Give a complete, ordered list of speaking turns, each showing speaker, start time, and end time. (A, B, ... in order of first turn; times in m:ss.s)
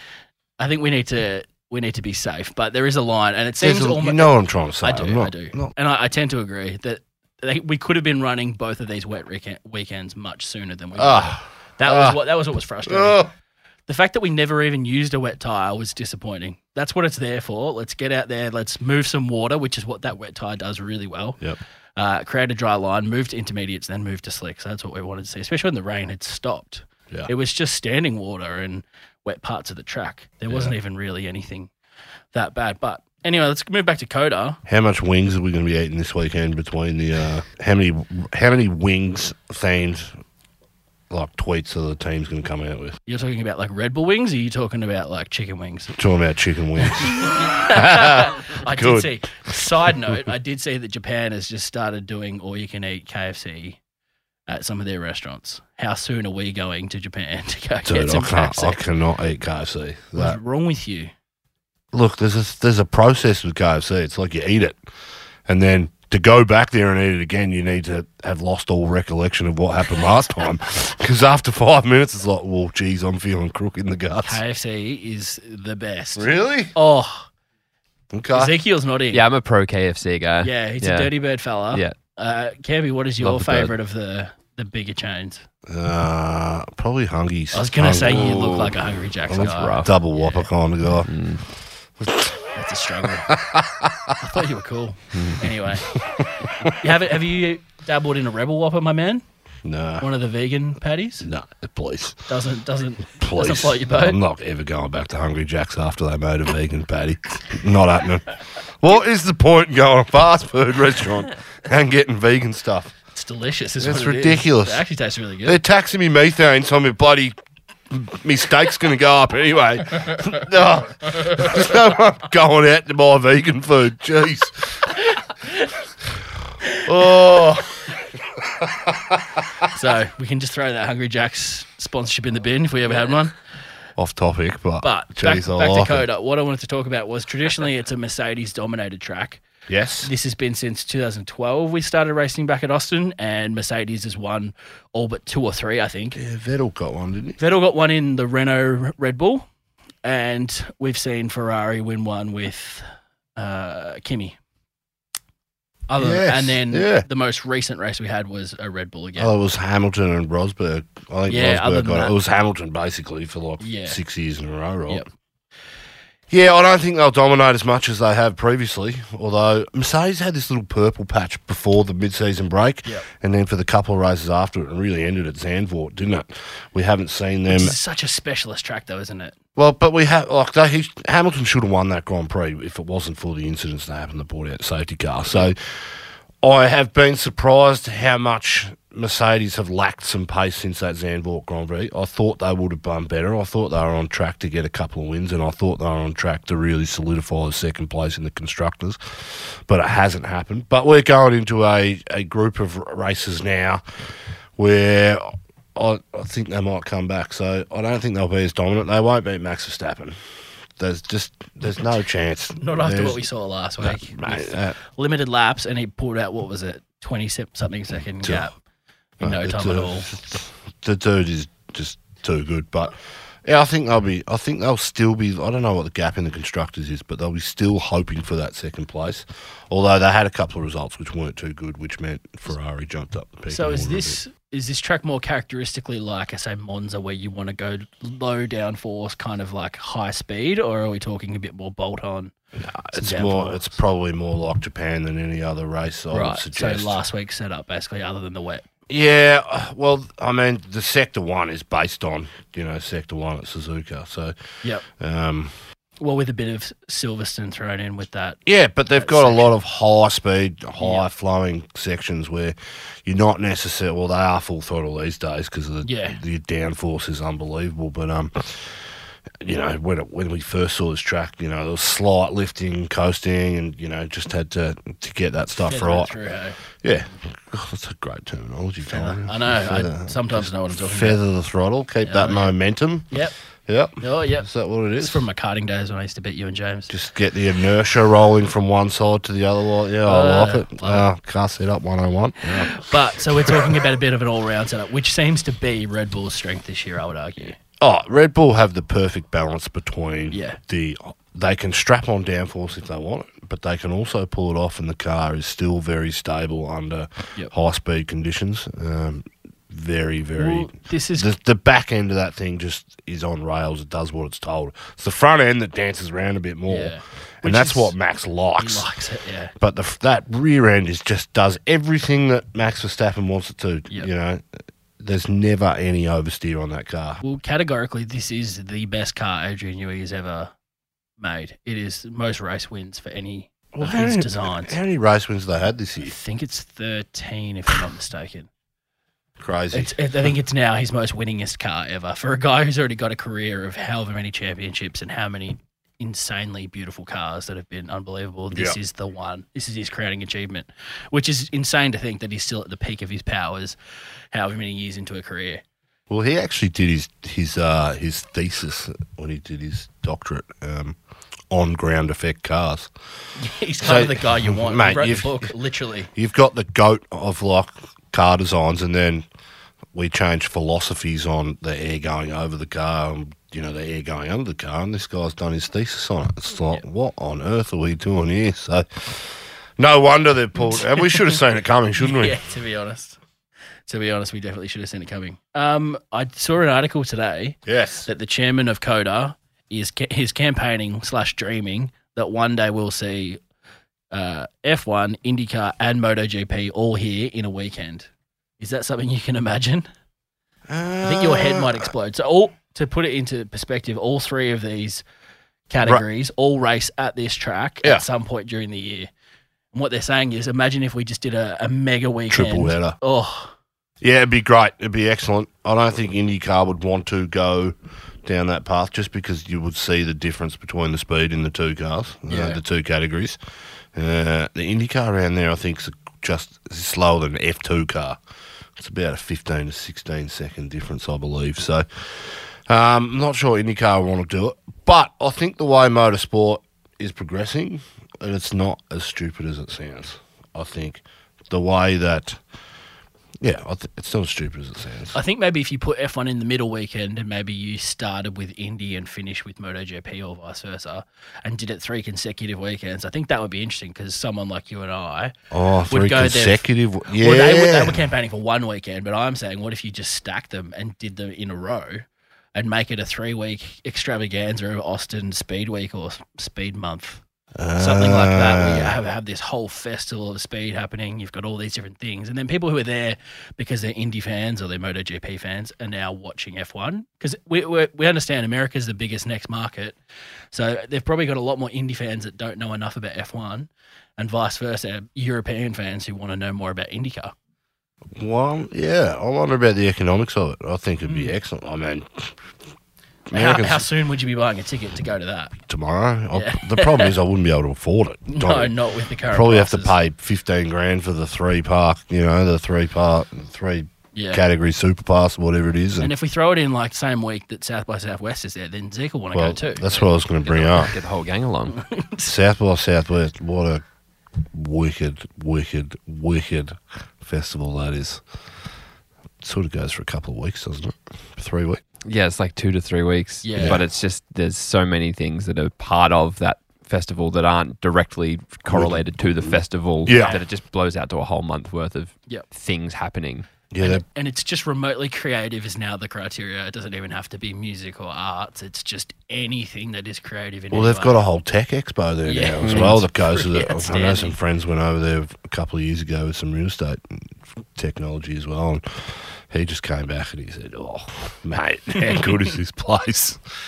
0:00.6-0:13.2 A
0:03.6-0:05.7 B
0:11.0-0:12.2 B
0:12.8-0:13.3 B
0:13.9-0:21.4 A
0:22.0-0:31.7 A
0:30.5-0:30.7 B
0:32.3-0:34.6 A
0:34.6-0:40.1 B
0:41.1-0:43.0 B
0:43.1-0:45.9 A
0:45.9-0:49.1 B
0:46.8-0:53.8 A
0:54.5-0:58.8 A
0:57.8-1:00.4 B
1:00.1-1:01.1 A
1:01.9-1:04.8 B
1:05.4-1:14.4 B
1:14.2-1:17.3 A
1:16.2-1:16.7 B
1:18.1-1:18.5 B
1:18.3-1:19.2 A
1:19.1-1:21.1 C
1:20.4-1:25.4 A
1:23.2-1:23.7 C
1:25.7-1:28.3 B
1:27.5-1:30.4 A
1:28.0-1:28.8 C
1:29.3-1:31.1 B
1:29.3-1:29.9 C
1:31.0-1:31.4 C
1:32.0-1:32.4 B
1:32.5-1:33.4 A
1:33.3-1:34.1 B
1:34.2-1:35.9 A
1:35.1-1:35.4 C
1:35.9-1:36.7 B
1:36.7-1:39.2 A
1:39.6-1:40.1 B
1:40.0-1:41.3 A
1:41.2-1:42.2 B
1:42.3-1:44.2 A
1:43.2-1:53.0 B
1:53.1-1:55.6 A
1:53.8-1:54.8 B
1:55.4-1:57.3 B
1:57.9-2:05.1 B
2:06.8-2:09.4 B
2:09.6-2:13.3 A
2:14.0-2:16.0 B
2:14.8-2:19.4 A
2:19.7-2:20.1 B
2:20.0-2:26.2 A
2:26.2-2:27.4 B
2:27.4-2:29.4 A
2:30.0-2:32.8 A
2:33.4-2:34.4 A
2:35.9-2:39.3 A
2:36.0-2:37.0 B
2:39.2-2:45.0 B
2:41.3-2:42.1 A
2:43.6-2:44.0 A
2:46.3-2:57.8 B
2:57.5-2:59.3 A
2:59.6-3:05.9 B
3:06.4-3:23.8 B
3:24.6-3:30.2 B
3:30.8-3:33.2 B
3:32.6-3:38.6 A
3:33.8-3:34.8 B
3:38.2-3:38.5 B
3:39.2-3:54.2 B
3:39.2-3:40.1 A
3:53.5-4:02.3 A
4:02.5-4:07.0 B
4:02.9-4:03.7 A
4:06.1-4:08.7 A
4:08.9-4:14.3 B
4:14.9-4:15.5 B
4:16.0-4:18.4 A
4:18.4-4:36.2 B
4:19.0-4:19.5 A
4:20.8-4:21.1 A
4:25.8-4:26.2 A
4:35.6-4:36.6 A
4:36.7-4:43.1 B
4:38.9-4:41.2 A
4:42.0-4:42.5 A
4:43.7-4:45.2 B
4:44.0-4:46.9 A
4:46.9-4:53.8 B
4:50.0-4:51.1 A
4:52.6-4:57.6 A
4:57.8-5:18.8 B
5:00.3-5:00.6 A
5:10.4-5:11.3 A
5:16.7-5:17.9 A
5:18.6-5:19.5 A
5:19.6-5:24.4 B
5:25.0-5:27.2 B
5:27.2-5:30.5 A
5:31.2-5:34.7 A
5:33.7-5:36.1 B
5:36.0-5:38.5 A
5:39.4-5:39.9 B
5:39.7-5:53.8 A
5:48.5-5:48.8 B
5:54.3-5:55.6 A
5:56.1-6:01.0 B
6:01.5-6:02.9 B
6:03.4-6:06.1 A
6:03.8-6:05.5 B
6:06.1-6:09.2 B
6:09.9-6:22.4 B
6:20.6-6:21.3 A
6:22.0-6:23.2 A
6:23.8-6:33.4 A
6:27.6-6:28.1 B
6:34.1-6:39.9 A
6:40.7-6:41.9 B
6:41.0-6:45.0 A
6:45.7-6:49.1 A
6:49.7-6:53.5 A
6:52.3-6:53.0 B
6:54.0-7:03.4 B
7:02.3-7:02.6 A
7:03.9-7:08.2 B
7:08.8-7:22.4 B
7:23.4-7:25.2 B
7:25.1-7:35.3 A
7:35.5-7:38.0 B
7:35.9-7:47.2 A
7:47.6-7:49.0 B
7:47.8-8:00.0 A
8:00.5-8:07.3 A
8:08.1-8:12.4 B
8:11.0-8:11.3 A
8:13.3-8:13.9 B
8:13.3-8:15.5 A
8:15.6-8:18.7 B
8:16.3-8:17.1 A
8:18.3-8:19.9 A
8:19.3-8:26.1 B
8:24.1-8:24.4 A
8:26.0-8:30.0 A
8:29.3-8:30.9 B
8:29.9-8:31.8 C
8:31.7-8:32.3 A
8:32.2-8:33.8 B
8:34.5-8:38.2 B
8:39.4-8:41.8 B
8:42.0-8:53.5 C
8:43.4-8:43.8 A
8:43.6-8:43.8 B
8:48.7-8:50.4 B
8:50.1-8:50.4 A
8:53.7-8:54.0 B
8:53.8-9:01.2 A
9:00.7-9:13.4 B
9:02.2-9:04.4 A
9:02.6-9:02.9 C